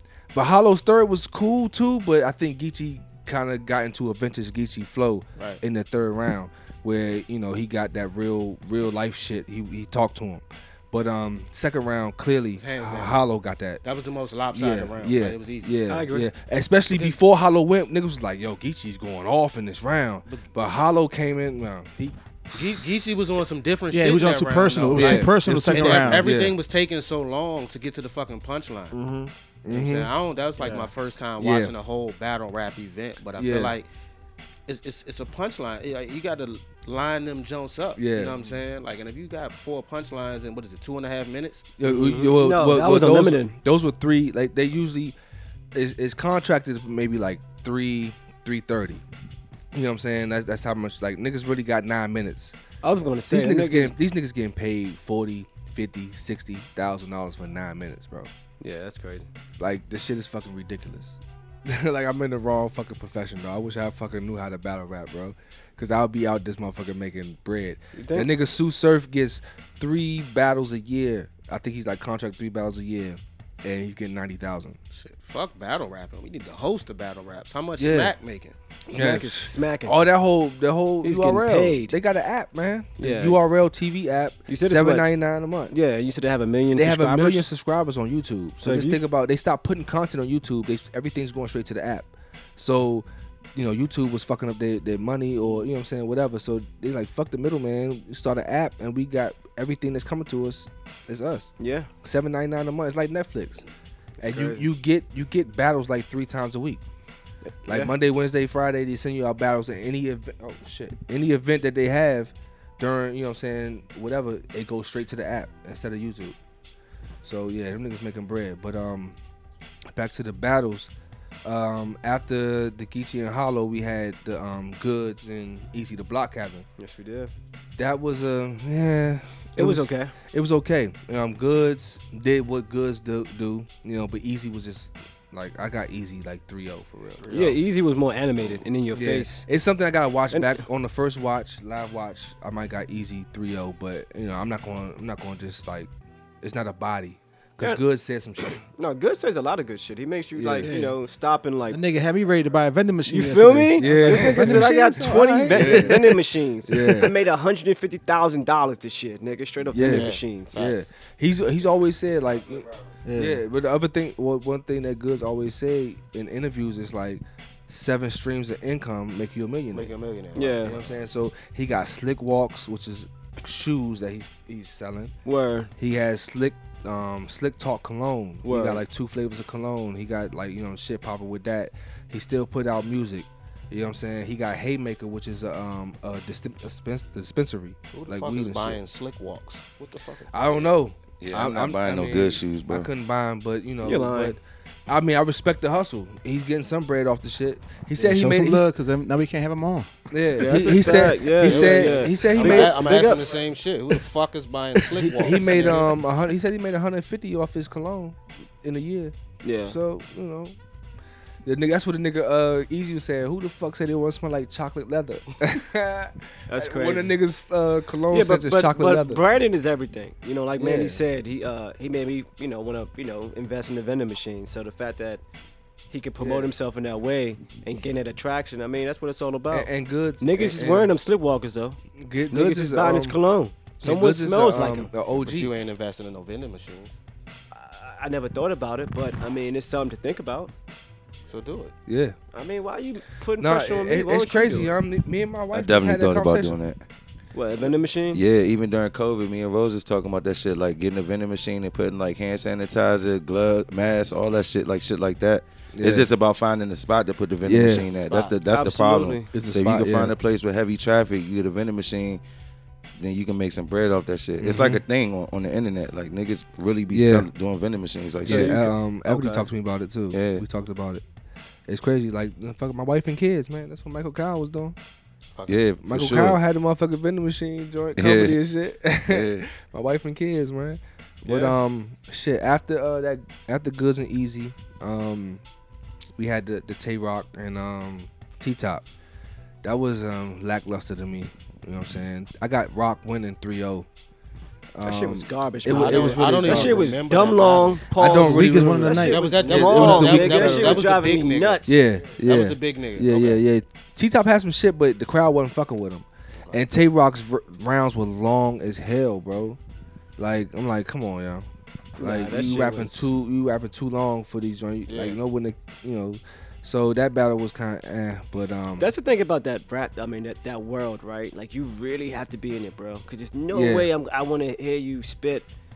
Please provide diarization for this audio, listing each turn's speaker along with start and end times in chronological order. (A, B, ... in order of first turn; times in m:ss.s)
0:00.3-0:13.8 A
0:12.6-0:13.2 B
0:13.8-0:15.8 B
0:14.5-0:23.2 A
0:15.9-0:16.3 C
0:16.9-0:17.2 B
0:20.3-0:20.6 B
0:22.5-0:29.0 B
0:23.9-0:26.3 D
0:24.9-0:26.6 A
0:29.0-0:30.1 A
0:29.7-0:33.9 B
0:30.6-0:30.9 D
0:31.4-0:31.7 A
0:33.4-0:33.7 A
0:34.7-0:41.7 B
0:38.0-0:38.4 A
0:41.8-0:45.2 A
0:41.8-0:43.6 C
0:45.7-0:49.0 A
0:49.7-0:52.6 A
0:52.8-0:54.0 C
0:53.3-0:58.3 A
0:58.6-0:59.3 C
0:59.6-1:14.8 A
1:08.0-1:08.3 C
1:14.9-1:18.6 B
1:17.8-1:18.2 A
1:18.9-1:20.0 C
1:18.9-1:25.7 A
1:21.0-1:22.0 C
1:23.0-1:23.4 C
1:24.5-1:25.1 C
1:25.7-1:27.5 C
1:26.7-1:43.6 A
1:28.6-1:29.0 C
1:41.6-1:41.9 C
1:44.2-1:44.7 C
1:44.2-1:46.8 A
1:47.4-1:47.9 C
1:47.7-1:56.4 A
1:57.2-1:59.2 A
1:59.9-2:00.9 A
2:01.4-2:06.7 A
2:06.8-2:07.3 C
2:07.8-2:17.2 A
2:09.6-2:10.2 C
2:17.2-2:17.6 B
2:17.3-2:19.5 C
2:18.9-2:25.9 A
2:20.3-2:20.6 C
2:26.4-2:28.6 A
2:28.7-2:31.8 C
2:30.4-2:30.7 A
2:30.6-2:31.0 D
2:31.7-2:36.0 D
2:33.1-2:40.6 C
2:33.8-2:34.7 A
2:35.5-2:36.1 A
2:36.7-2:37.1 A
2:39.7-2:49.9 A
2:39.9-2:40.8 B
2:43.0-2:43.4 D
2:49.7-2:51.0 B
2:50.4-2:50.8 C
2:50.6-2:55.1 A
2:55.2-2:55.7 C
2:55.8-3:08.8 A
2:58.4-2:58.8 C
3:07.9-3:10.7 B
3:10.3-3:18.7 A
3:11.2-3:12.9 E
3:13.8-3:14.4 C
3:18.0-3:20.0 D
3:20.1-3:22.9 A
3:20.4-3:23.2 C
3:20.9-3:26.0 B
3:25.0-3:29.1 A
3:29.4-3:29.8 C
3:29.7-3:30.6 A
3:31.4-3:39.2 A
3:36.5-3:37.2 C
3:38.1-3:45.2 C
3:40.6-3:41.0 A
3:45.9-3:51.8 C
3:46.2-3:46.5 A
3:49.5-3:51.0 A
3:52.0-3:53.2 A
3:52.3-3:54.9 C
3:53.8-3:55.5 A
3:55.1-3:57.0 B
3:57.5-4:00.5 C
4:01.3-4:01.7 B
4:01.9-4:02.2 A
4:02.3-4:04.7 C
4:03.4-4:06.6 A
4:05.5-4:06.8 E
4:07.3-4:08.2 C
4:08.1-4:22.2 E
4:15.7-4:16.1 A
4:17.4-4:17.9 A
4:17.9-4:18.3 B
4:18.5-4:19.3 C
4:19.3-4:20.2 A
4:23.0-4:28.7 E
4:24.4-4:24.8 A
4:26.9-4:27.3 A
4:28.2-4:31.0 A
4:28.2-4:29.5 C
4:30.1-4:30.4 E
4:31.7-4:34.8 A
4:35.4-4:35.6 B
4:35.5-4:36.4 E
4:35.8-4:45.4 A
4:38.0-4:38.4 E
4:39.1-4:39.5 E
4:41.2-4:41.6 C
4:46.2-4:48.8 A
4:49.6-4:53.9 A
4:54.8-4:57.0 A
4:54.8-5:01.8 C
4:55.7-4:57.8 B
4:58.0-5:00.9 A
4:58.1-5:00.0 D
4:58.8-5:01.6 B
5:01.7-5:09.6 A
5:02.2-5:03.4 B
5:10.2-5:11.5 A
5:12.0-5:13.1 C
5:12.0-5:18.9 A
5:14.9-5:15.2 B
5:18.8-5:25.5 C
5:23.5-5:23.9 A